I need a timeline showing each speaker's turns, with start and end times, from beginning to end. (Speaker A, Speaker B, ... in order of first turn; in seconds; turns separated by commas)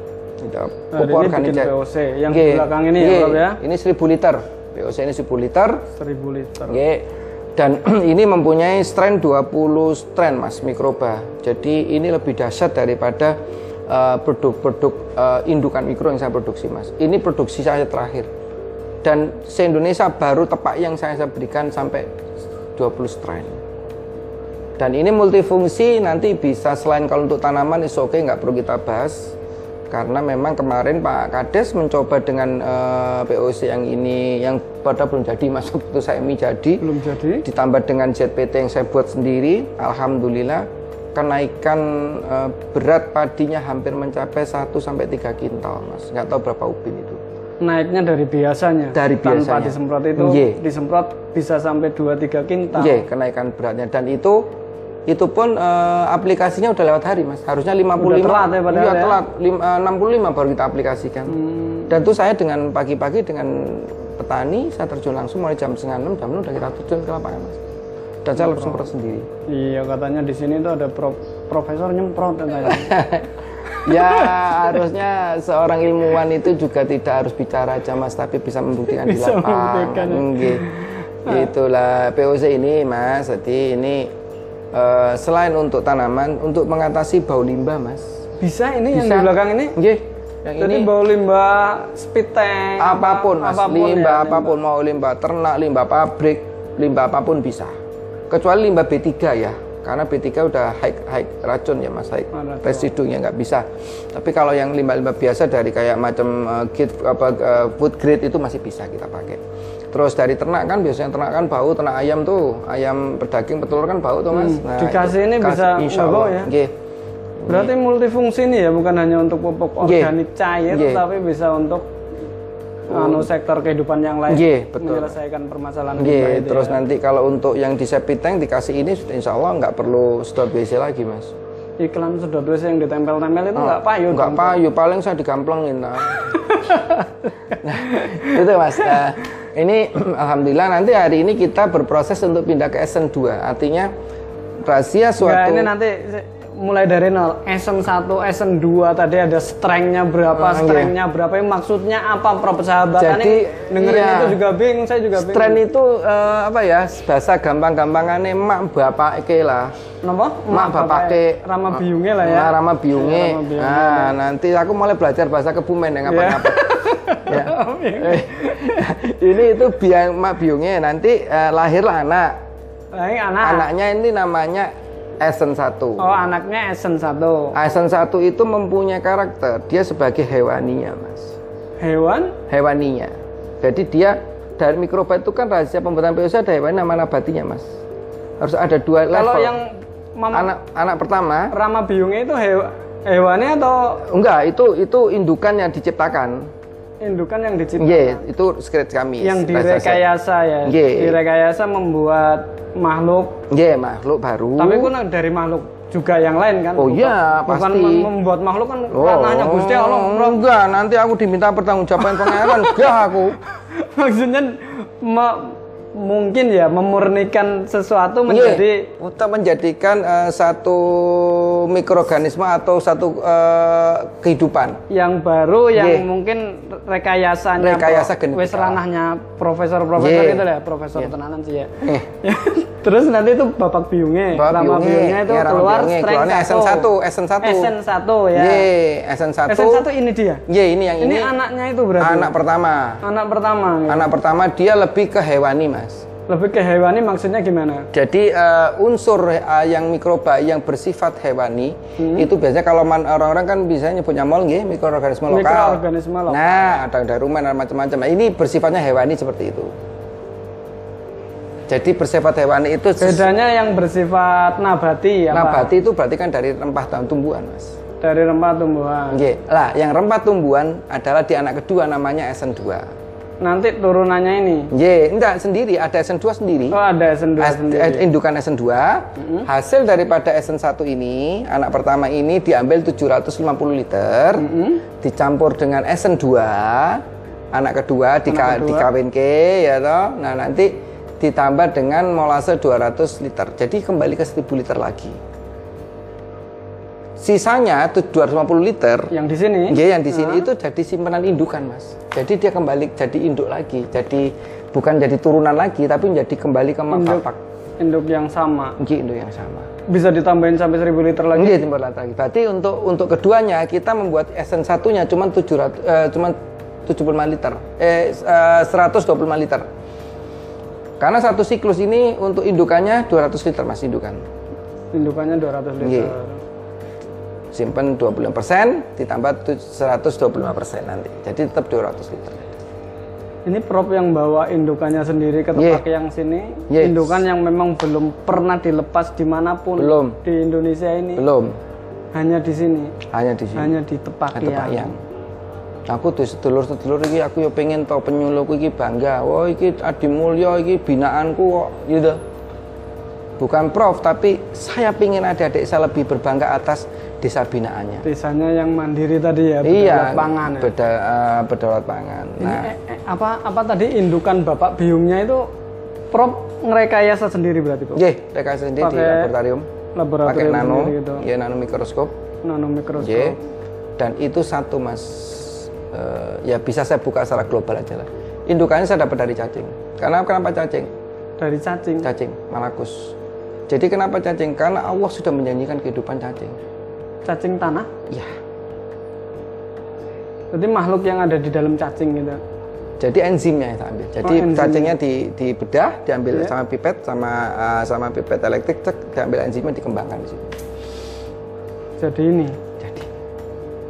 Speaker A: 0.4-1.7, Speaker B: 0.9-3.6, Speaker A: 2.3-5.8, Speaker B: 6.0-6.8, Speaker A: 6.7-13.3, Speaker A: 13.9-18.3, Speaker A: 19.0-22.1, Speaker A: 22.8-23.6, Speaker A: 24.8-29.3, Speaker A: 29.9-36.8, Speaker B: 36.8-37.5, Speaker A: 37.4-47.2, Speaker B: 47.6-53.0, Speaker A: 48.9-50.6, Speaker A: 52.7-54.5, Speaker A: 55.1-61.4, Speaker B: 58.0-59.2, Speaker B: 61.3-61.9, Speaker A: 61.9-67.6, Speaker A: 68.2-69.3, Speaker B: 68.4-68.8, Speaker B: 69.5-73.0, Speaker A: 72.6-84.1, Speaker B: 73.7-74.6, Speaker B: 79.0-81.5, Speaker A: 84.7-88.2, Speaker B: 88.4-89.8, Speaker A: 88.9-90.9, Speaker B: 90.6-94.5, Speaker A: 92.8-97.7, Speaker A: 98.3-109.4, Speaker B: 102.3-102.9, Speaker A: 109.9-116.7, Speaker B: 114.3-116.5, Speaker A: 117.4-117.7, Speaker B: 117.5-121.8, Speaker A: 119.8-120.1, Speaker A: 120.7-121.0, Speaker B: 122.9-126.8, Speaker A: 122.9-123.3, Speaker A: 124.3-125.1, Speaker A: 126.0-131.3, Speaker B: 131.8-134.6, Speaker A: 133.5-136.4, Speaker B: 136.3-138.4, Speaker A: 137.6-143.9, Speaker A: 144.6-145.7, Speaker B: 145.2-155.6, Speaker A: 150.3-150.9, Speaker A: 153.0-154.4, Speaker A: 155.2-159.7, Speaker B: 160.0-164.2, Speaker A: 160.5-172.3, Speaker B: 166.1-168.9, Speaker B: 172.9-173.7, Speaker A: 173.4-176.1, Speaker B: 176.0-177.6, Speaker A: 177.5-181.3, Speaker B: 181.8-182.4, Speaker A: 182.5-187.6, Speaker A: 188.4-189.6, Speaker B: 189.1-190.5, Speaker A: 190.3-191.5, Speaker B: 191.5-194.0, Speaker A: 194.0-196.5, Speaker B: 197.0-198.2, Speaker A: 197.8-200.0, Speaker B: 199.2-203.4, Speaker A: 200.7-201.2, Speaker A: 203.5-204.9, Speaker B: 204.6-210.4, Speaker A: 206.8-208.1, Speaker A: 208.9-213.4, Speaker B: 212.0-218.9, Speaker A: 218.3-224.8, Speaker B: 224.9-236.9, Speaker A: 225.7-226.1, Speaker A: 227.6-228.8, Speaker A: 230.0-231.1, Speaker A: 231.8-232.1, Speaker A: 234.3-237.7, Speaker B: 237.4-238.7, Speaker A: 238.3-239.9, Speaker B: 239.5-240.4, Speaker A: 240.5-241.3, Speaker B: 241.0-242.3, Speaker A: 242.0-243.0, Speaker B: 243.0-244.1, Speaker A: 243.9-246.0, Speaker B: 246.3-247.9, Speaker A: 247.9-259.7, Speaker B: 252.0-252.3, Speaker B: 255.3-256.7, Speaker A: 261.7-263.3, Speaker B: 263.0-265.7, Speaker A: 265.3-267.8, Speaker B: 268.0-269.2, Speaker A: 269.1-272.9, Speaker B: 273.4-274.7, Speaker A: 274.7-276.8, Speaker B: 276.7-278.1, Speaker A: 277.4-284.5, Speaker B: 279.2-279.5, Speaker B: 284.4-284.8, Speaker A: 285.0-295.2, Speaker B: 288.3-288.9, Speaker A: 297.2-299.1, Speaker B: 299.1-300.5, Speaker A: 299.7-307.4, Speaker B: 306.9-307.2, Speaker B: 307.8-308.8, Speaker A: 308.8-309.7, Speaker B: 309.9-311.6, Speaker A: 311.3-319.7, Speaker A: 321.0-324.2, Speaker B: 324.9-326.4, Speaker A: 325.8-326.1, Speaker A: 327.5-332.5, Speaker B: 333.4-341.2, Speaker A: 335.5-335.8, Speaker A: 336.7-337.2, Speaker A: 339.8-340.2, Speaker A: 341.2-341.6, Speaker B: 342.1-342.9, Speaker A: 343.1-343.8, Speaker B: 343.6-344.9, Speaker A: 344.3-345.0, Speaker A: 345.9-352.2, Speaker A: 353.4-358.1, Speaker B: 358.0-360.7, Speaker A: 359.6-362.7, Speaker B: 362.4-365.5, Speaker B: 366.1-368.0, Speaker A: 367.9-369.7, Speaker B: 368.8-369.3, Speaker B: 369.9-371.2, Speaker A: 370.2-372.1, Speaker B: 372.4-373.4, Speaker A: 373.0-373.4, Speaker A: 374.0-380.9, Speaker B: 381.4-382.1, Speaker A: 382.0-383.1, Speaker A: 383.7-386.6, Speaker B: 387.2-387.9, Speaker A: 388.1-388.3, Speaker B: 390.5-392.4, Speaker A: 393.0-400.5, Speaker B: 394.2-394.9, Speaker B: 402.0-402.6, Speaker A: 402.8-403.1